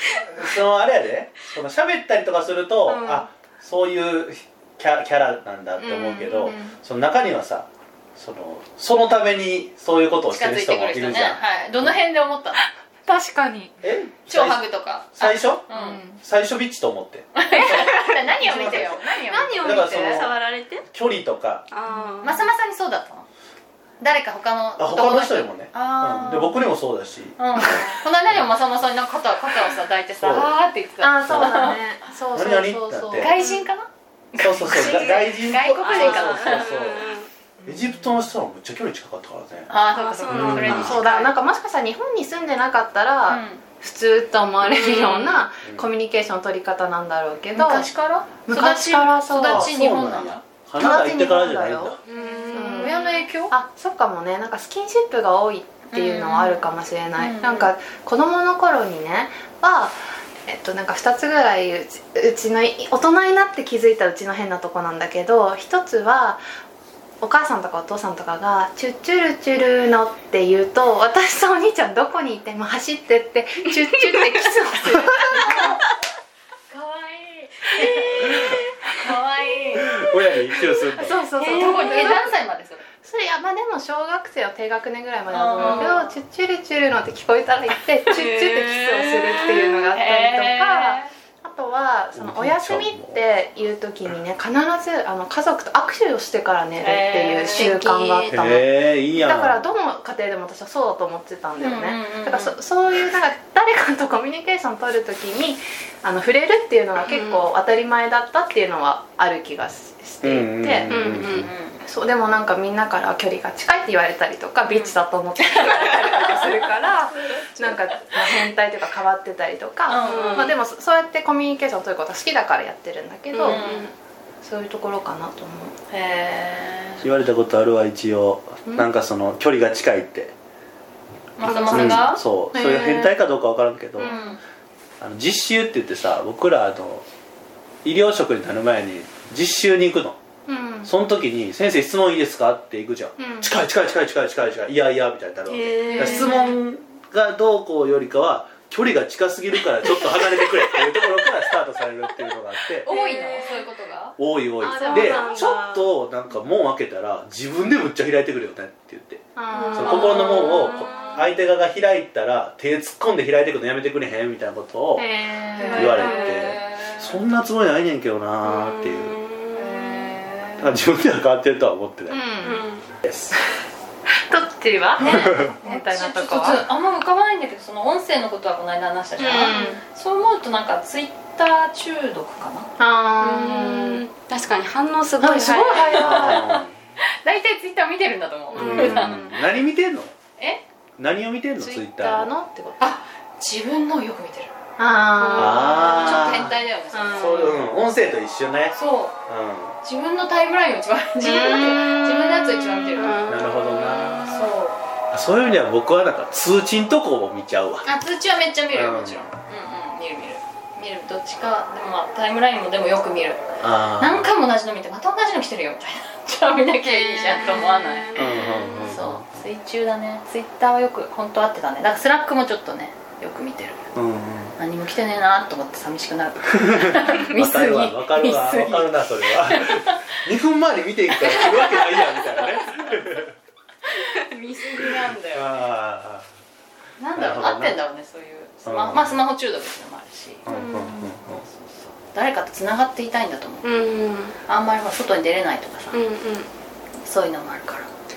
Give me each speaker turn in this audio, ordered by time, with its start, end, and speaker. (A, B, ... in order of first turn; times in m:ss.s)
0:00.3-0:11.9 A
0:02.9-0:03.3 B
0:05.8-0:06.8 B
0:10.3-0:12.6 C
0:13.1-0:13.8 B
0:13.8-0:14.6 A
0:14.3-0:16.0 C
0:15.1-0:19.0 A
0:15.7-0:16.2 B
0:17.3-0:19.9 C
0:19.1-0:20.2 B
0:19.4-0:20.8 D
0:19.6-0:20.4 A
0:20.9-0:21.6 A
0:21.7-0:22.5 D
0:22.2-0:23.3 C
0:24.0-0:26.6 C
0:24.8-0:28.5 A
0:27.4-0:31.8 C
0:30.2-0:33.4 B
0:32.3-0:33.3 A
0:33.2-0:36.9 C
0:34.4-0:37.0 A
0:35.8-0:37.3 D
0:37.6-0:39.7 A
0:37.7-0:38.2 B
0:39.7-0:41.4 C
0:39.9-0:41.0 D
0:40.3-0:41.0 A
0:40.6-0:47.9 B
0:43.3-0:43.6 C
0:44.6-0:45.4 D
0:45.6-0:45.9 A
0:47.5-0:50.4 C
0:48.4-0:49.7 B
0:49.5-0:52.0 A
0:50.8-1:06.4 B
0:52.0-0:52.9 D
0:52.5-0:53.5 C
0:55.9-0:57.7 C
1:07.2-1:15.7 B
1:15.3-1:15.8 C
1:16.7-1:20.0 C
1:19.8-1:21.2 A
1:20.7-1:22.4 B
1:21.3-1:22.8 C
1:21.4-1:21.9 D
1:23.0-2:03.7 B
1:25.3-1:26.1 C
1:28.1-1:29.8 D
1:29.9-1:31.1 C
1:32.1-1:33.2 A
1:36.8-1:37.8 C
1:37.5-1:38.6 D
1:38.3-1:39.7 A
1:41.6-1:42.6 C
1:47.0-1:47.4 D
1:50.2-1:51.5 A
1:50.9-1:51.5 D
1:51.3-1:51.8 C
1:54.7-1:56.5 C
1:57.4-1:57.8 D
1:59.9-2:00.6 C
2:00.0-2:00.6 D
2:03.3-2:03.9 D
2:03.4-2:03.9 C
2:04.4-2:05.7 B
2:05.9-2:07.0 C
2:07.0-2:10.3 A
2:11.4-2:12.2 C
2:11.4-2:12.0 D
2:11.7-2:14.2 A
2:12.5-2:13.2 B
2:14.0-2:14.4 B
2:14.0-2:14.4 C
2:15.0-2:17.0 A
2:17.8-2:20.2 A
2:20.5-2:20.9 B
2:20.8-2:32.9 A
2:23.2-2:23.5 B
2:25.5-2:26.4 D
2:25.9-2:26.6 C
2:32.8-2:34.1 C
2:32.8-2:33.7 D
2:34.2-2:39.2 A
2:34.6-2:35.6 B
2:34.8-2:35.9 D
2:39.4-2:40.4 B
2:39.5-2:41.3 D
2:39.7-2:45.0 A
2:45.0-2:46.1 B
2:45.6-2:47.2 C
2:45.6-2:46.5 D
2:45.7-2:49.2 A
2:48.4-2:50.2 D
2:49.6-2:50.8 C
2:50.6-2:52.2 A
2:52.1-2:52.6 B
2:52.4-2:52.9 D
2:53.0-2:53.3 A
2:54.3-2:56.6 B
2:55.0-3:02.7 C
2:59.2-2:59.8 B
3:02.8-3:04.0 B
3:03.2-3:06.4 D
3:05.2-3:06.2 B
3:05.2-3:06.6 C
3:05.9-3:06.7 A
3:07.2-3:09.4 C
3:08.5-3:09.1 D
3:08.5-3:10.1 A
3:10.4-3:10.6 C
3:11.0-3:12.3 A
3:11.6-3:12.8 B
3:12.8-3:14.5 C
3:14.8-3:16.4 B
3:15.2-3:17.4 C
3:15.3-3:16.5 A
3:16.9-3:17.6 B
3:17.1-3:18.7 A
3:18.7-3:19.2 C
3:19.3-3:19.8 A
3:19.8-3:23.4 C
3:21.2-3:23.2 B
3:23.0-3:24.4 D
3:23.3-3:24.4 A
3:24.2-3:24.8 C
3:25.1-3:27.9 A
3:27.8-3:43.8 C
3:28.7-3:29.3 A
3:33.6-3:34.3 A
3:36.8-3:39.0 D
3:38.2-3:39.4 A
3:43.9-3:44.6 A
3:44.6-3:50.1 C
3:46.8-3:53.3 A
3:51.1-3:53.0 C
3:53.8-3:55.6 C
3:55.3-3:56.2 A
3:57.0-4:00.4 C
3:57.2-3:57.8 A
3:58.6-3:59.2 A
4:00.4-4:01.4 A
4:00.5-4:00.9 B
4:01.2-4:03.7 C
4:03.6-4:04.4 D
4:04.4-4:06.0 C
4:05.9-4:06.5 D
4:07.0-4:07.9 C